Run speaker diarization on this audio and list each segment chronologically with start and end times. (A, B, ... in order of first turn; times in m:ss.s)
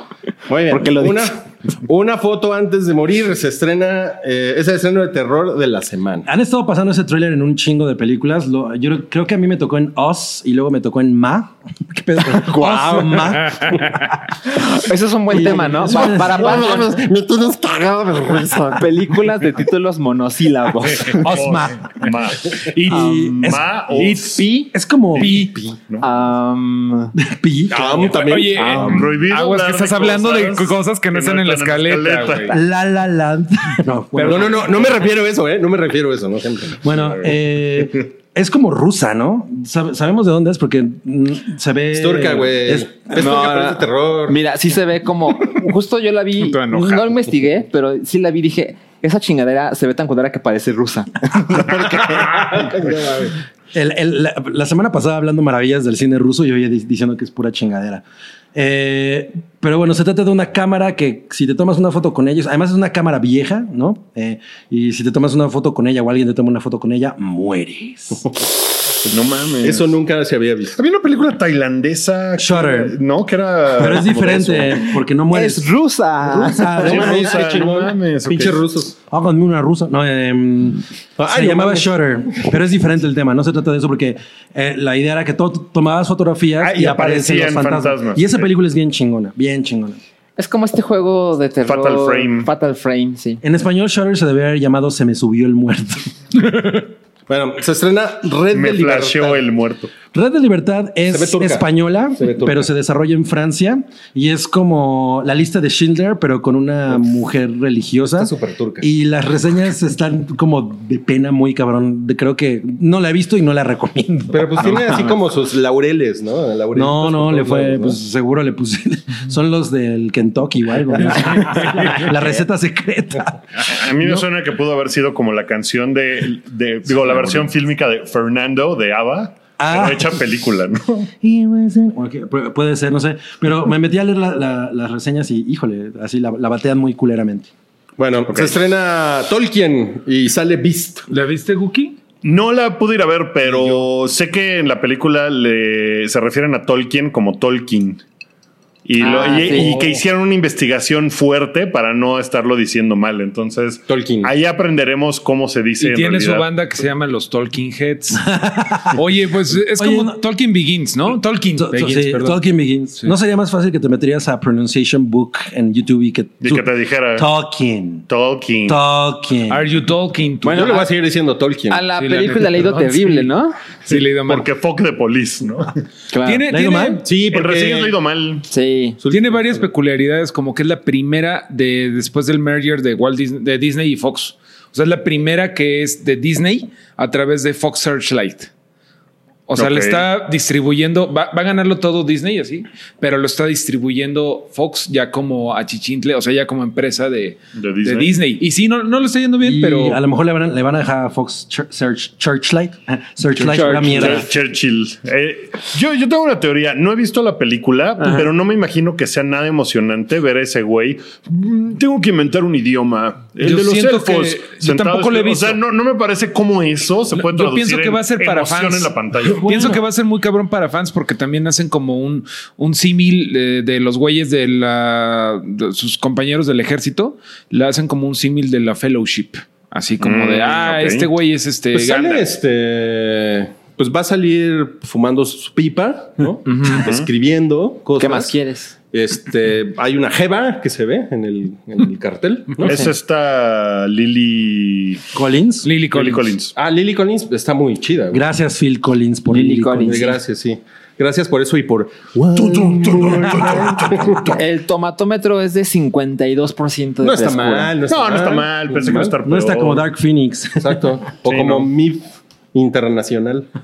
0:00.5-0:06.3 A
0:00.7-0:01.3 B
0:06.2-0:14.0 C
0:12.4-0:13.4 B
0:13.5-0:14.1 D
0:14.4-0:17.0 B
0:15.3-0:16.6 C
0:16.4-0:17.1 E
0:16.7-0:18.0 A
0:18.0-0:21.4 B
0:21.1-0:24.5 E
0:21.2-0:21.9 C
0:22.7-0:25.5 D
0:22.9-0:23.4 B
0:22.9-0:23.5 C
0:24.7-0:25.3 C
0:25.2-0:26.1 E
0:26.0-0:27.1 B
0:27.2-0:28.0 C
0:27.7-0:28.9 A
0:27.9-0:32.6 D
0:28.6-0:29.0 B
0:28.6-0:32.6 E
0:32.5-0:34.6 C
0:34.2-0:34.8 D
0:34.2-0:36.9 A
0:36.8-0:43.0 C
0:41.9-0:44.4 A
0:43.2-0:52.4 B
0:46.4-0:47.1 D
0:52.5-0:53.1 A
0:53.7-0:58.0 C
0:58.6-1:08.2 C
1:09.1-1:09.9 E
1:09.6-1:10.8 A
1:10.8-1:14.7 E
1:12.4-1:13.0 C
1:13.8-1:15.7 C
1:14.0-1:14.4 A
1:15.3-1:17.2 B
1:16.2-1:17.4 C
1:16.8-1:18.6 E
1:16.8-1:19.0 A
1:19.1-1:30.0 C
1:21.2-1:21.9 A
1:26.6-1:28.5 E
1:30.4-1:33.4 B
1:31.7-1:32.5 E
1:33.4-1:36.1 C
1:37.3-1:39.4 A
1:38.5-1:39.9 E
1:40.1-1:55.2 C
1:41.1-1:42.6 A
1:48.2-1:48.9 A
1:54.3-1:58.0 A
1:56.7-2:03.6 C
2:03.6-2:11.1 E
2:09.6-2:10.2 C
2:11.2-2:17.5 C
2:18.0-2:21.1 A
2:18.3-2:18.5 E
2:21.1-2:22.0 D
2:22.2-2:28.0 E
2:23.4-2:23.8 D
2:28.8-2:36.5 E
2:29.0-2:29.9 B
2:33.9-2:34.3 A
2:35.8-2:42.4 D
2:38.3-2:39.0 C
2:39.8-2:40.2 C
2:41.6-2:48.1 C
2:46.4-2:47.3 E
2:48.1-2:48.8 E
2:48.7-2:49.7 C
2:49.5-2:50.9 D
2:50.4-2:51.8 A
2:51.7-2:53.6 B
2:52.0-2:53.3 D
2:53.9-2:54.5 D
2:53.9-2:55.7 E
2:56.1-2:56.4 B
2:56.2-2:57.1 D
2:56.5-2:57.0 C
2:57.0-2:58.0 A
2:57.2-2:58.5 E
2:58.5-2:59.0 B
2:59.0-2:59.6 A
2:59.1-3:08.5 D
3:09.5-3:20.0 D
3:09.6-3:10.0 E
3:17.6-3:18.2 E
3:19.4-3:24.3 C
3:23.4-3:24.2 B
3:24.0-3:39.6 E
3:33.4-3:35.6 D
3:37.1-3:52.3 D
3:39.3-3:39.8 C
3:50.0-3:51.1 E
3:51.7-3:58.4 A
3:56.7-3:57.1 E
3:58.0-3:58.7 B
3:58.9-4:02.8 A
4:02.6-4:05.0 E
4:05.1-4:05.7 C
4:05.6-4:06.4 D
4:05.9-4:06.5 E
4:06.6-4:08.2 A
4:08.1-4:10.2 C
4:09.3-4:10.2 B
4:09.8-4:14.3 A
4:12.4-4:14.3 E
4:14.3-4:17.7 B
4:17.0-4:19.1 A
4:17.9-4:19.8 E
4:19.2-4:21.0 C
4:20.6-4:23.5 A
4:21.3-4:21.7 E